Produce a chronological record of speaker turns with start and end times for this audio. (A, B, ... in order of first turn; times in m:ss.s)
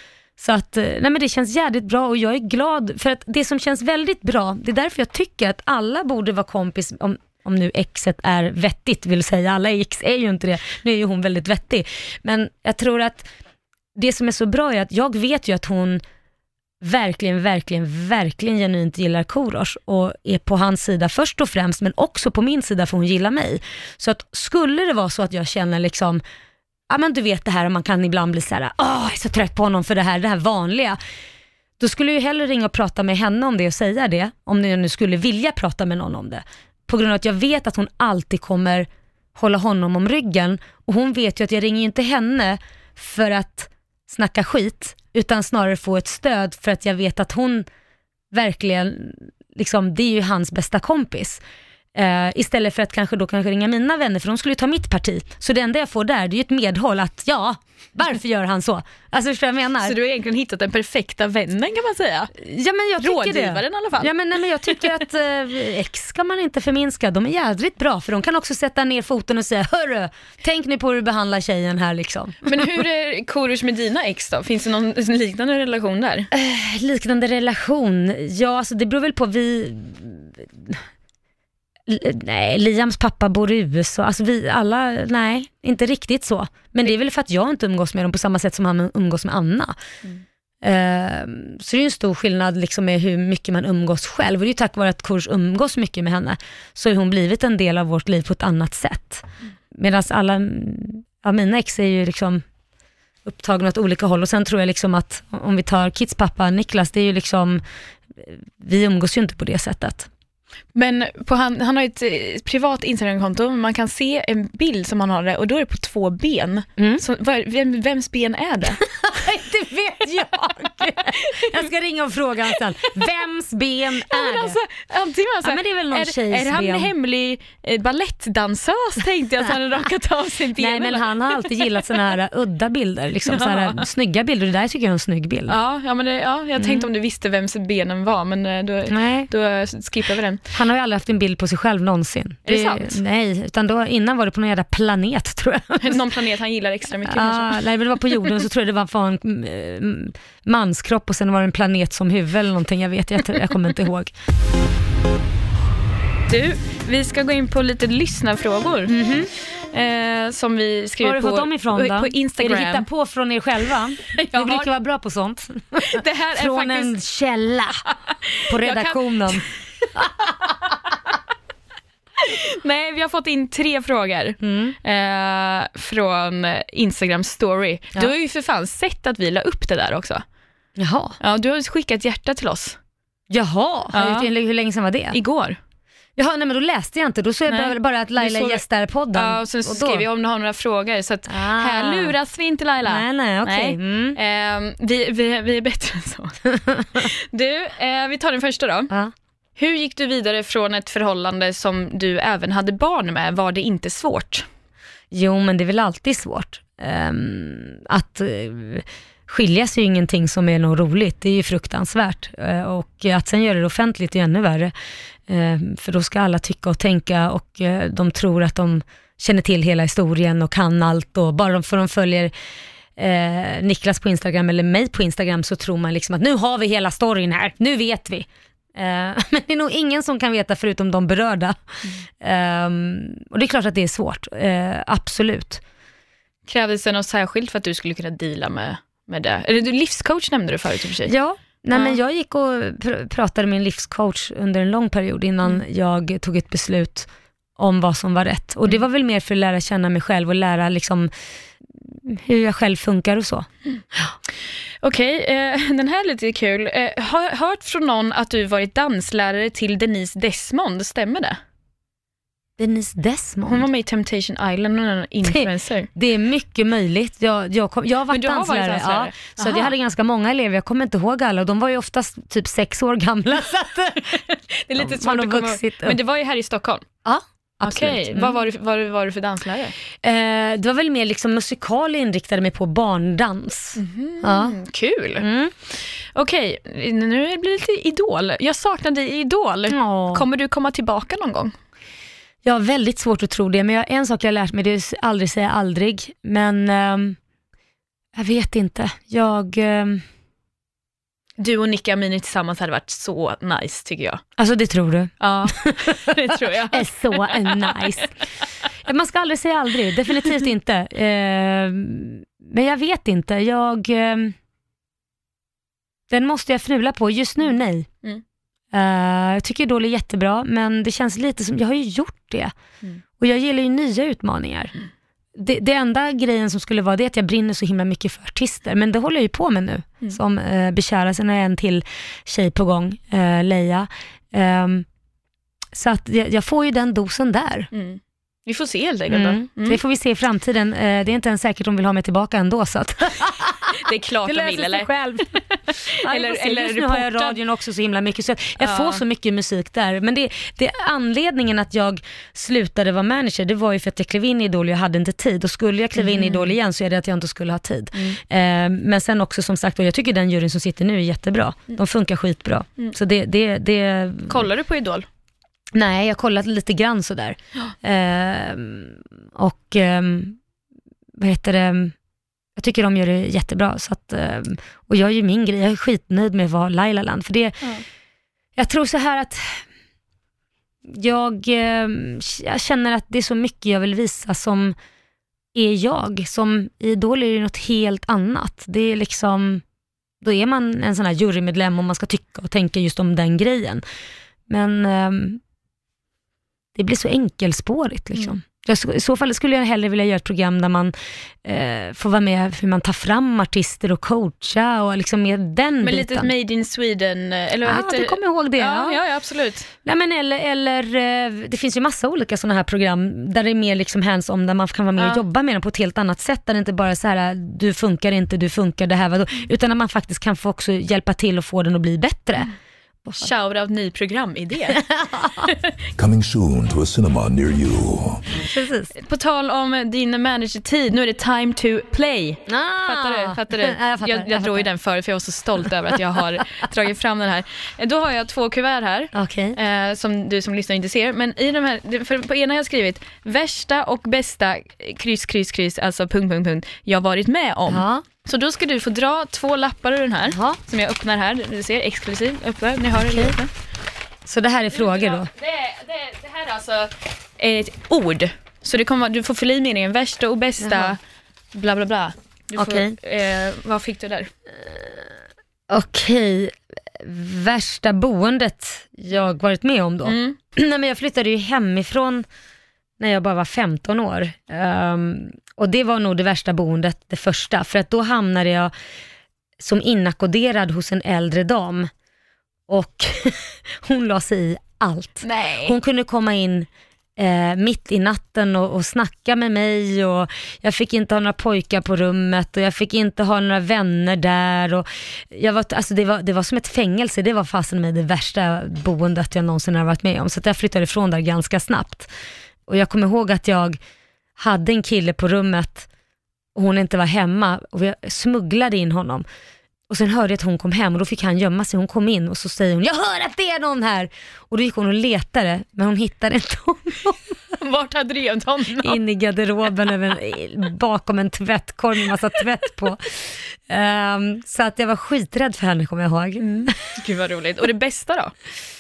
0:00.4-0:13.3 A
0:14.0-0:16.0 A
0:16.8-0:26.2 A
0:26.9-0:31.0 A
0:31.8-0:47.7 A
0:48.3-0:51.4 A
0:52.0-1:00.0 A
0:59.8-1:02.3 B
1:02.4-1:12.4 A
1:03.0-1:04.1 B
1:12.4-1:16.3 B
1:16.3-1:20.8 A
1:21.9-1:29.8 A
1:30.6-1:42.4 A
1:43.2-1:47.6 A
1:48.2-1:50.1 A
1:50.8-1:58.8 B
1:58.8-2:04.6 A
2:01.2-2:01.7 B
2:04.1-2:11.1 B
2:05.4-2:06.9 A
2:10.6-2:15.6 A
2:13.3-2:13.8 B
2:15.5-2:20.4 B
2:16.6-2:16.9 A
2:18.9-2:19.3 A
2:20.5-2:26.0 A
2:22.5-2:23.0 B
2:25.8-2:27.6 B
2:27.0-2:34.1 A
2:36.3-2:38.9 B
2:38.9-2:39.3 A
2:39.7-2:42.9 B
2:41.0-2:47.8 A
2:44.1-2:44.7 B
2:45.8-2:47.0 B
2:48.2-2:49.4 B
2:48.5-2:49.4 A
2:52.2-3:00.2 B
2:54.4-2:54.8 A
3:00.8-3:01.2 A
3:01.2-3:02.8 B
3:03.3-3:05.2 A
3:03.9-3:04.3 B
3:05.1-3:05.6 B
3:06.2-3:10.1 A
3:07.5-3:16.4 B
3:11.3-3:12.2 A
3:12.8-3:14.2 A
3:16.6-3:17.1 A
3:17.0-3:18.9 B
3:19.6-3:24.5 B
3:25.1-3:34.7 A
3:35.3-3:42.3 A
3:43.0-3:55.6 A
3:56.5-4:01.1 B
4:01.0-4:11.1 A
4:01.7-4:02.0 B
4:11.8-4:14.1 A
4:14.8-4:21.4 B
4:22.6-4:23.7 A
4:23.4-4:25.9 B
4:25.2-4:34.2 A
4:28.1-4:29.7 B
4:34.2-4:36.8 B
4:34.8-4:36.0 A
4:37.0-4:38.4 A
4:37.6-4:39.8 B
4:40.0-4:44.6 A
4:43.8-4:51.5 B
4:45.2-4:45.5 A
4:49.7-4:50.2 A
4:52.4-4:57.2 A
4:58.2-5:00.0 A
5:01.4-5:04.2 B
5:04.4-5:05.8 A
5:05.2-5:08.0 B
5:06.7-5:08.1 A
5:08.8-5:14.4 A
5:16.1-5:17.9 A
5:18.7-5:22.5 A
5:23.2-5:24.7 A
5:25.4-5:34.9 A
5:35.7-5:37.7 A
5:37.7-5:39.8 B
5:39.1-6:04.5 A
5:43.8-5:44.9 B
5:45.7-5:47.4 B
5:48.6-5:49.0 B
5:56.0-5:56.5 B
6:04.3-6:05.1 B
6:05.7-6:10.4 A
6:11.2-6:12.0 A
6:12.6-6:17.7 A
6:18.6-6:19.6 A
6:20.9-6:24.8 A
6:25.5-6:29.6 A
6:30.2-6:33.8 A
6:34.5-6:35.4 A
6:36.8-6:46.3 A
6:45.8-6:49.7 B
6:47.6-6:49.0 A
6:49.8-7:02.5 A
6:55.0-6:55.2 B
7:03.0-7:03.3 A
7:03.2-7:04.8 B
7:04.8-7:05.5 A
7:06.0-7:08.2 C
7:08.4-7:08.9 A
7:09.0-7:33.5 B
7:12.5-7:14.7 A
7:19.1-7:19.6 A
7:27.7-7:28.0 A
7:30.3-7:30.6 A
7:33.0-7:33.4 A
7:34.3-7:35.3 A
7:34.7-7:41.0 B
7:40.6-7:41.0 A
7:41.5-7:44.3 B
7:42.6-7:43.0 A
7:44.6-7:45.1 A
7:45.7-7:52.2 A
7:50.0-7:50.4 B
7:53.0-7:58.7 A
7:59.6-8:01.9 A
8:02.7-8:22.1 A
8:05.2-8:05.8 B
8:22.7-8:23.8 A
8:24.4-8:25.9 A
8:26.6-8:29.3 A
8:29.9-8:37.3 A
8:37.6-8:39.0 B
8:38.8-8:46.8 A
8:46.4-8:48.3 B